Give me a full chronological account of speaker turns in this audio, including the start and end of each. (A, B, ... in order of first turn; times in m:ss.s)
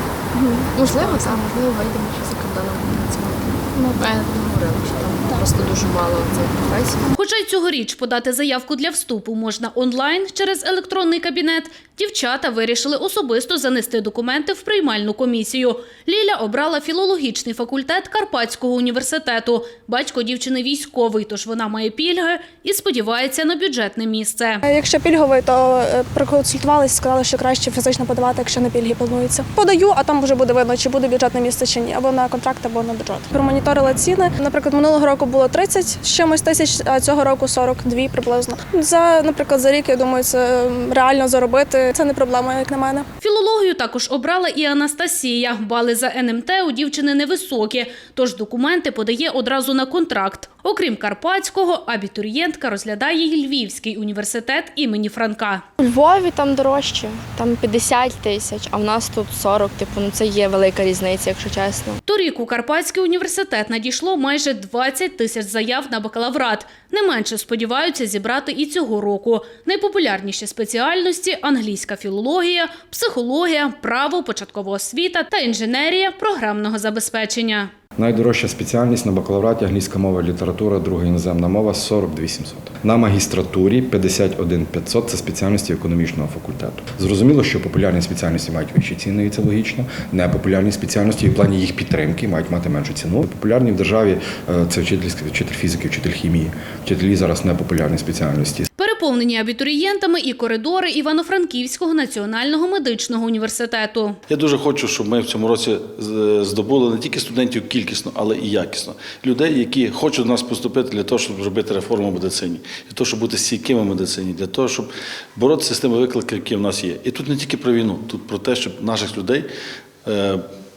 0:00.3-0:07.0 A
0:07.1-0:24.6 B
0:24.6-0:43.0 C
0:43.2-0:55.6 B
0:55.8-1:02.0 A
1:02.0-1:17.7 B
1:18.0-1:38.7 D
1:38.8-1:44.2 B
1:44.3-1:59.5 E
2:00.0-2:00.4 E